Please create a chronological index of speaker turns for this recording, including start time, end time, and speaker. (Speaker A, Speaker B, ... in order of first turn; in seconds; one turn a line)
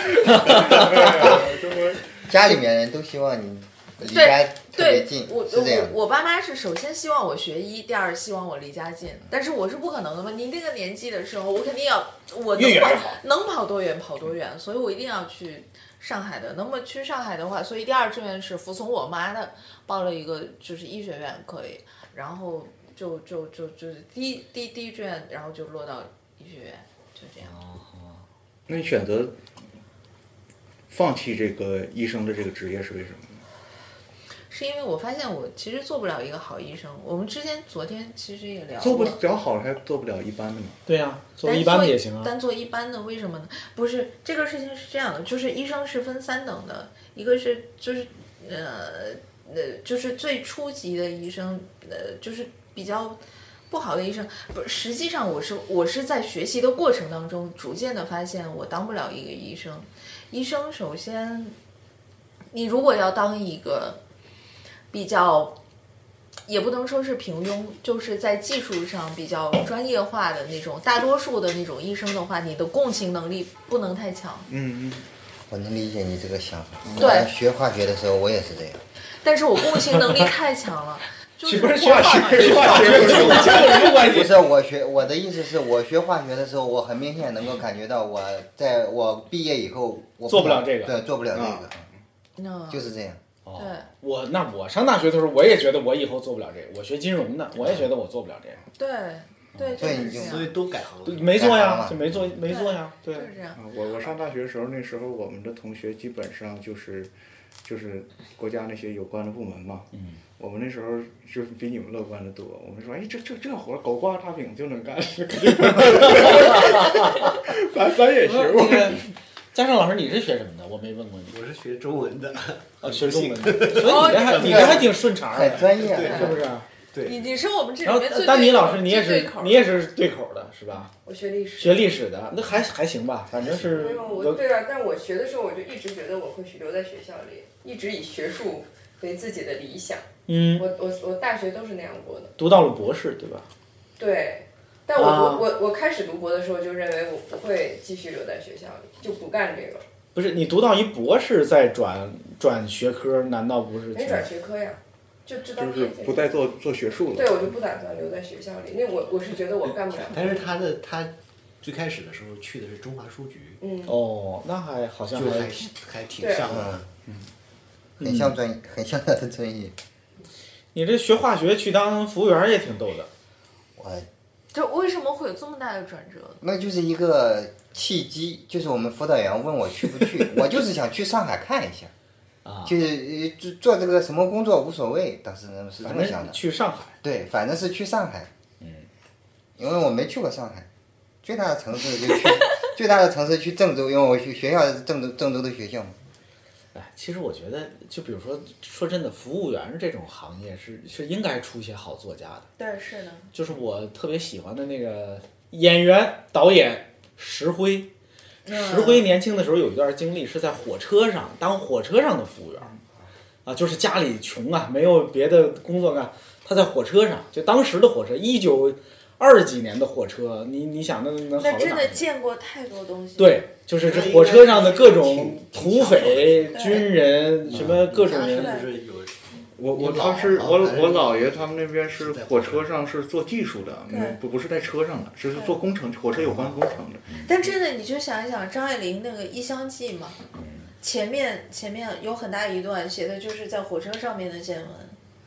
Speaker A: 0.3-2.0
Speaker B: 2.2-6.0
Speaker C: 4.0-27.5
Speaker D: 12.5-13.2
Speaker D: 27.4-28.2
Speaker A: 28.7-29.3
Speaker A: 30.9-33.4
Speaker C: 34.5-39.2
Speaker A: 38.8-40.8
Speaker D: 40.9-42.3
Speaker C: 41.4-61.5
Speaker C: 62.5-64.0
Speaker C: 64.9-65.6
Speaker C: 66.5-74.5
Speaker A: 74.5-75.0
Speaker B: 75.5-78.8
Speaker C: 77.0-77.3
Speaker C: 79.2-83.6
Speaker D: 81.4-84.4
Speaker A: 81.7-84.0
Speaker B: 84.0-91.8
Speaker D: 90.3-90.9
Speaker A: 91.3-91.7
Speaker C: 92.4-92.9
Speaker B: 92.7-93.2
Speaker D: 93.4-98.6
Speaker C: 93.5-93.9
Speaker C: 98.8-100.5
Speaker B: 99.8-100.5
Speaker E: 100.0-101.5
Speaker D: 101.0-103.3
Speaker B: 101.3-102.4
Speaker C: 102.5-103.6
Speaker A: 103.5-107.1
Speaker A: 107.6-119.1
Speaker D: 118.2-121.4
Speaker E: 121.3-126.4
Speaker D: 122.8-126.7
Speaker C: 123.8-124.7
Speaker B: 124.2-126.4
Speaker E: 126.9-127.2
Speaker C: 127.0-129.8
Speaker D: 127.8-130.9
Speaker F: 131.0-131.9
Speaker D: 131.6-134.4
Speaker E: 133.4-133.8
Speaker F: 133.7-142.3
Speaker D: 140.3-140.7
Speaker D: 142.4-143.5
Speaker F: 144.0-149.8
Speaker D: 144.9-145.5
Speaker D: 150.1-154.3
Speaker F: 153.9-156.3
Speaker A: 155.6-157.4
Speaker F: 157.1-160.5
Speaker E: 160.0-163.6
Speaker F: 163.6-163.9
Speaker D: 163.8-165.5
Speaker E: 165.1-166.9
Speaker F: 166.2-166.6
Speaker B: 166.5-166.8
Speaker B: 168.0-169.7
Speaker D: 168.0-168.3
Speaker D: 170.7-173.1
Speaker B: 173.8-174.1
Speaker C: 174.5-176.4
Speaker B: 176.4-181.9
Speaker D: 182.4-182.7
Speaker B: 182.6-186.4
Speaker D: 185.8-186.9
Speaker B: 187.0-188.3
Speaker D: 188.6-188.9
Speaker B: 189.6-190.7
Speaker B: 191.2-195.9
Speaker D: 196.7-202.5
Speaker C: 202.6-203.3
Speaker D: 203.3-207.9
Speaker C: 208.4-209.1
Speaker D: 208.5-212.7
Speaker D: 213.4-222.1
Speaker C: 221.4-223.4
Speaker D: 223.2-228.5
Speaker E: 223.8-226.8
Speaker C: 226.5-226.9
Speaker E: 227.4-232.8
Speaker C: 228.1-228.7
Speaker A: 229.6-237.1
Speaker C: 233.9-234.2
Speaker C: 237.2-240.2
Speaker D: 240.3-240.7
Speaker C: 240.8-245.0